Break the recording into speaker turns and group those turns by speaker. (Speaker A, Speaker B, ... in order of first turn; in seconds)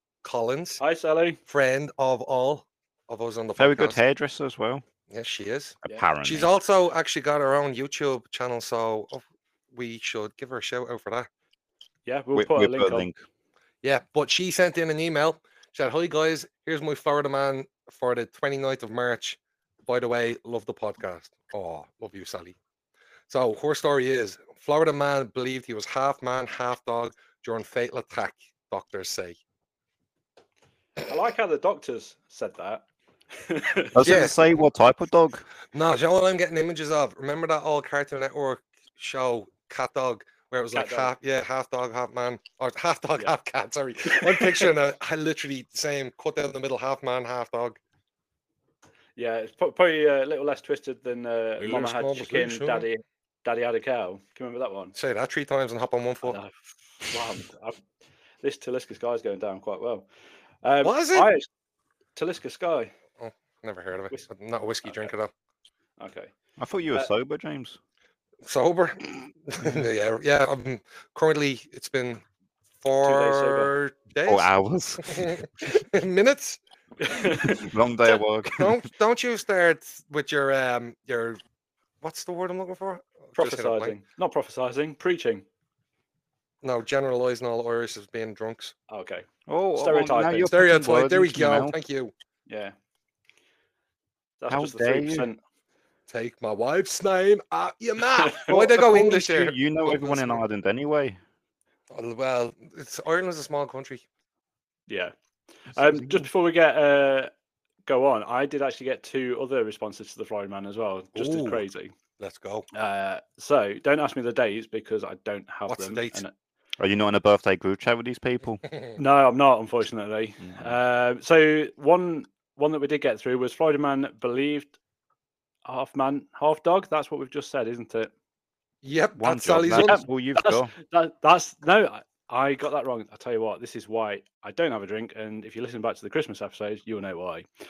Speaker A: 0.2-0.8, 1.5-4.0, 5.1-11.3, 13.8-22.5, 23.3-29.4, 34.0-34.4, 35.7-47.8, 51.6-52.8, 55.0-56.4, 60.8-61.3, 63.2-65.3, 68.4-72.2, 72.8-74.5, 75.0-76.6, 78.6-81.4, 82.0-84.0, 86.6-88.7, 90.5-92.1, 96.1-100.4, 101.9-104.0, 111.2-111.6, 112.2-112.7, 115.7-116.2, 128.8-130.0
Speaker B: 0.8-1.4, 12.1-13.1, 31.1-32.8, 33.4-34.1, 40.7-41.1, 44.1-44.7, 49.1-54.9, 56.2-57.8, 58.4-60.1, 60.6-61.5, 62.1-62.9, 64.8-65.1, 66.0-66.3, 73.0-73.7, 77.0-77.7, 83.4-85.4, 88.9-90.5, 92.5-92.7, 94.4-95.4, 98.1-98.5, 104.9-105.1, 105.7-107.3, 107.8-111.9, 112.7-116.3, 119.0-124.7, 125.7-128.1, 129.7-137.4
Speaker C: 3.6-4.8, 5.8-6.5, 12.3-13.2, 33.9-35.5, 66.6-67.8, 74.2-75.3, 77.4-78.8, 89.5-91.7, 94.5-95.3, 98.5-101.2, 105.9-106.1, 116.8-118.6, 120.4-120.7, 129.2-130.7